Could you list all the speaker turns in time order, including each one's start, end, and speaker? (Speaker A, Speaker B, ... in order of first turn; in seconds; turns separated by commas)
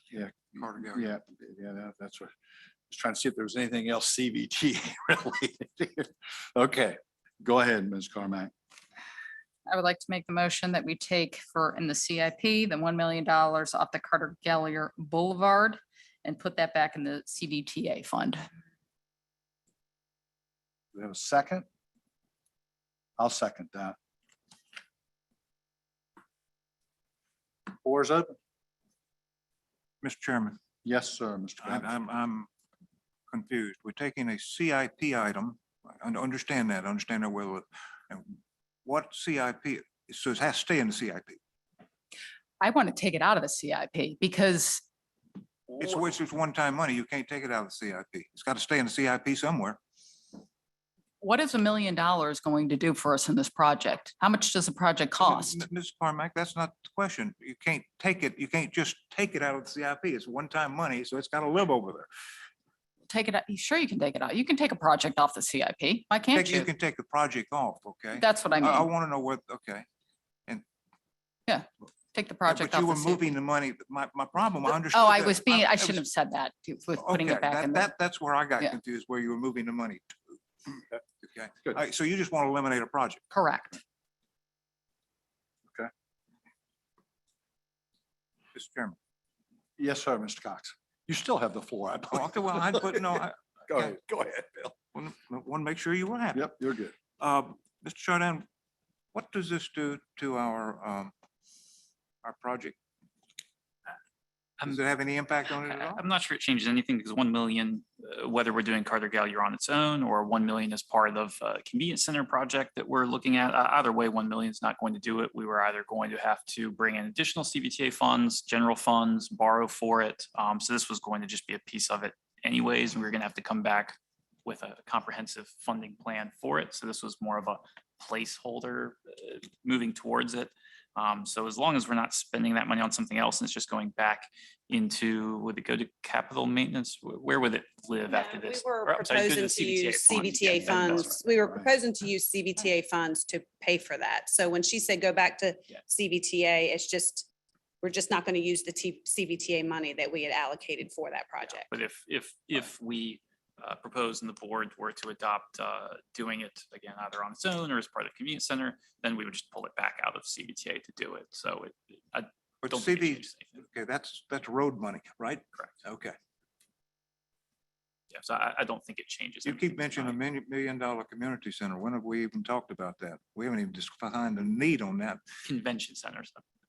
Speaker A: 0.1-2.3, Speaker B: 0.6-1.1, Speaker A: 2.9-8.5, Speaker C: 9.7-18.4, Speaker A: 20.9-21.6, Speaker A: 23.2-23.9, Speaker A: 27.8-28.3, Speaker B: 30.0-30.6, Speaker A: 30.8-31.9, Speaker B: 31.6-32.5, Speaker B: 33.3-41.4, Speaker C: 42.6-44.8, Speaker B: 45.7-49.8, Speaker C: 51.2-55.6, Speaker B: 55.2-62.1, Speaker C: 63.1-66.7, Speaker B: 66.3-69.8, Speaker C: 68.1-68.9, Speaker C: 71.5-73.2, Speaker B: 72.4-76.0, Speaker C: 74.8-77.9, Speaker B: 77.0-80.4, Speaker B: 81.2-83.2, Speaker C: 83.3-83.8, Speaker B: 88.5-89.0, Speaker A: 89.8-94.7, Speaker B: 92.1-93.9, Speaker B: 94.9-96.5, Speaker A: 96.3-96.9, Speaker B: 97.2-98.5, Speaker B: 99.1-101.1, Speaker B: 102.2-102.8, Speaker B: 104.6-106.0, Speaker D: 105.5-141.2, Speaker E: 138.1-147.2, Speaker E: 147.8-151.7, Speaker D: 151.7-163.6, Speaker B: 162.6-166.2, Speaker D: 168.1-170.2, Speaker B: 169.4-175.2, Speaker D: 175.4-176.4